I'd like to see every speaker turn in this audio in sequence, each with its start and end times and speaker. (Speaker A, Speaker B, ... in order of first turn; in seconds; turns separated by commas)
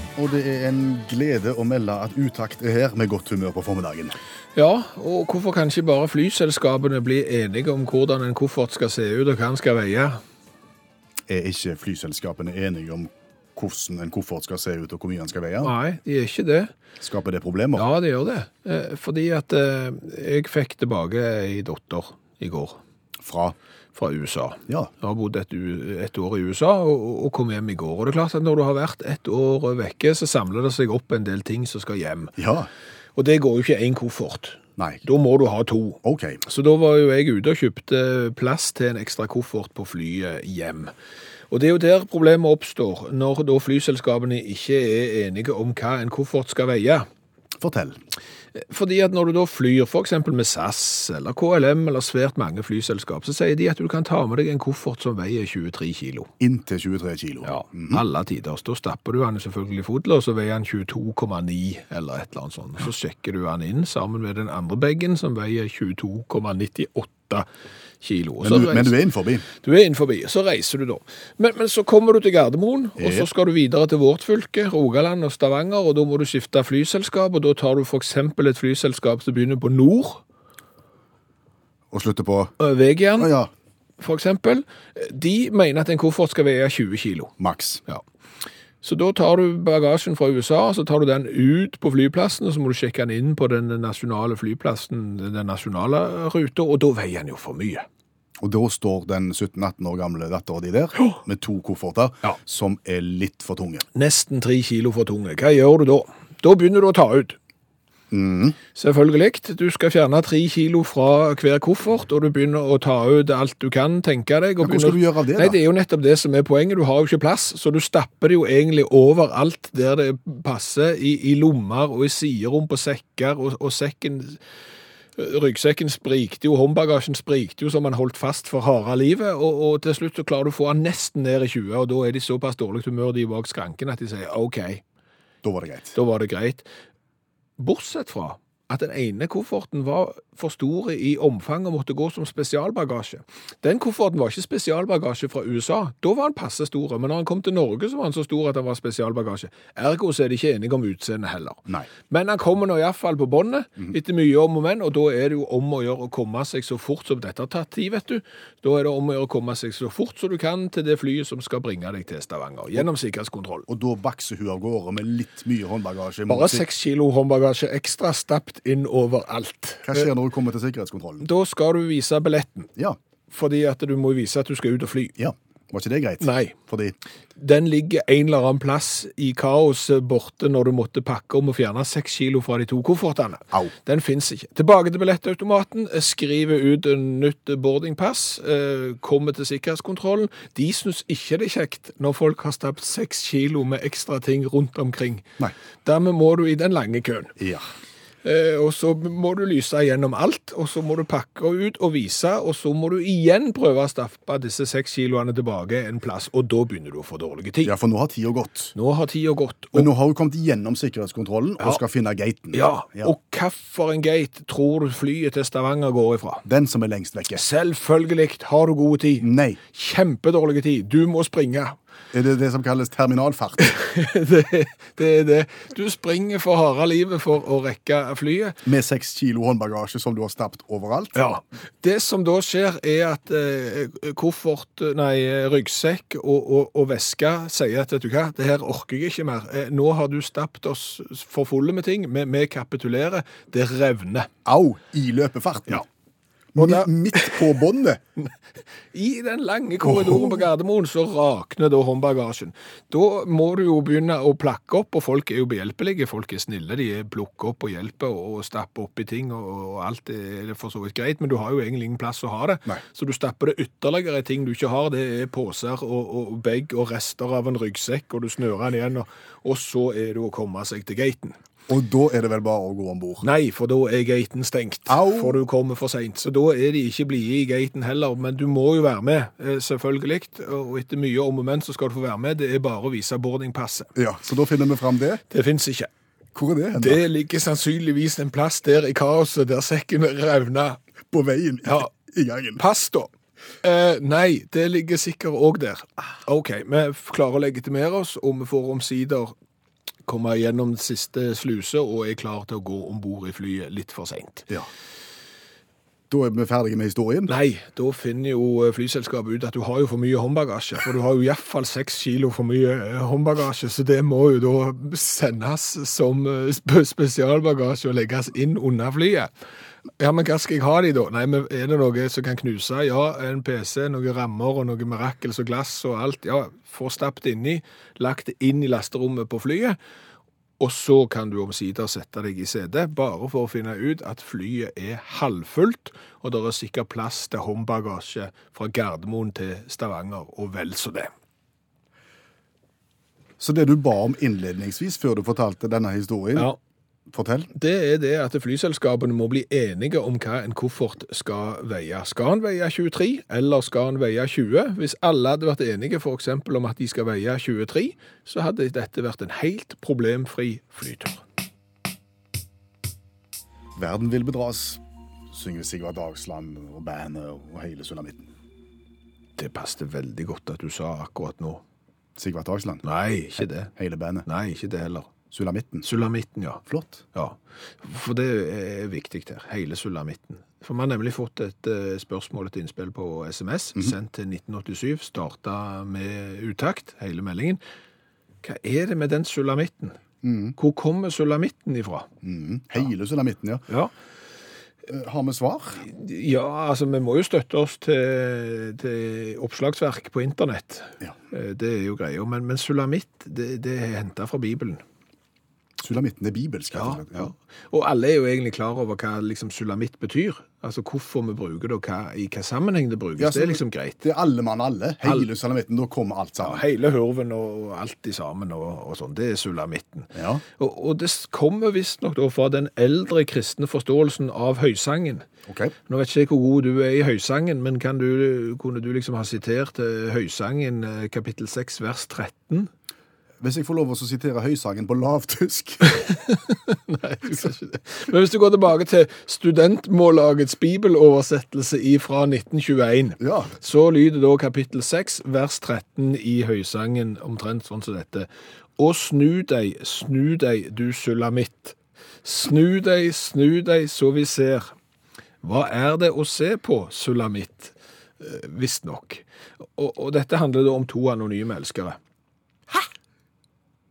Speaker A: 0.1-4.2, Speaker B: 4.5-10.2, Speaker A: 11.3-15.7, Speaker B: 15.6-16.7, Speaker A: 17.0-17.9, Speaker B: 17.8-22.8, Speaker A: 23.2-23.6, Speaker B: 23.9-32.4, Speaker A: 32.4-32.7, Speaker B: 33.1-40.9, Speaker A: 34.8-35.0, Speaker A: 36.0-36.4, Speaker B: 41.5-47.1, Speaker A: 47.6-48.0, Speaker B: 48.6-56.3, Speaker A: 56.4-58.0, Speaker B: 57.4-67.5, Speaker B: 68.0-69.0, Speaker A: 68.4-69.5, Speaker B: 69.6-80.2, Speaker A: 73.0-73.3, Speaker A: 81.9-82.5, Speaker B: 82.6-83.3, Speaker A: 83.2-83.5, Speaker B: 84.0-87.3, Speaker A: 87.4-87.8, Speaker B: 88.8-97.8, Speaker A: 98.4-103.8, Speaker B: 103.9-107.3, Speaker A: 108.1-108.6, Speaker B: 108.7-124.4, Speaker A: 114.6-115.6, Speaker B: 125.2-134.8, Speaker A: 135.4-136.0, Speaker B: 135.9-136.7, Speaker B: 137.6-163.7, Speaker A: 163.7-166.6, Speaker B: 166.3-170.1, Speaker A: 169.8-171.3, Speaker B: 171.2-172.7, Speaker B: 173.3-175.1, Speaker A: 175.2-176.9, Speaker B: 176.2-176.6, Speaker B: 177.3-195.3, Speaker B: 195.8-197.3, Speaker A: 197.4-197.7, Speaker B: 198.2-207.7, Speaker A: 207.6-208.7, Speaker B: 208.7-209.9, Speaker A: 209.7-213.1, Speaker B: 212.5-216.4, Speaker A: 216.4-217.4, Speaker B: 217.3-221.8, Speaker A: 219.2-219.6, Speaker A: 222.1-223.7, Speaker B: 223.6-228.6, Speaker A: 228.6-231.2, Speaker B: 231.1-244.3, Speaker A: 244.4-245.8, Speaker A: 246.5-248.0, Speaker B: 246.6-247.5, Speaker B: 248.9-271.4, Speaker A: 249.8-250.4, Speaker A: 271.7-273.2, Speaker B: 273.2-283.9, Speaker A: 274.9-275.4, Speaker A: 283.9-285.2, Speaker B: 285.3-285.9, Speaker A: 286.3-287.0, Speaker B: 286.8-290.8, Speaker A: 291.1-292.6, Speaker B: 292.6-293.1, Speaker B: 293.6-299.3, Speaker B: 300.1-304.5, Speaker A: 306.1-307.3, Speaker B: 307.3-319.3, Speaker B: 320.0-329.8, Speaker B: 330.6-341.1, Speaker A: 343.4-346.5, Speaker A: 347.1-347.5, Speaker B: 347.5-361.2, Speaker A: 363.8-368.3, Speaker B: 369.4-371.6, Speaker A: 372.2-372.8, Speaker B: 372.8-373.7, Speaker A: 373.7-374.3, Speaker B: 374.2-375.1, Speaker A: 375.3-375.9, Speaker B: 375.8-387.6, Speaker A: 376.6-377.0, Speaker B: 388.4-390.0, Speaker A: 390.2-390.6, Speaker B: 390.6-392.1, Speaker A: 392.2-393.7, Speaker A: 394.9-395.8, Speaker B: 395.8-404.8, Speaker A: 405.8-407.3, Speaker B: 406.7-414.0, Speaker A: 413.2-416.6, Speaker B: 415.0-415.3, Speaker B: 416.4-425.2, Speaker A: 420.1-420.4, Speaker A: 425.5-425.7, Speaker B: 425.9-432.7, Speaker A: 433.4-435.8, Speaker B: 435.8-454.7, Speaker A: 443.2-443.5, Speaker B: 455.4-459.2, Speaker B: 459.8-462.0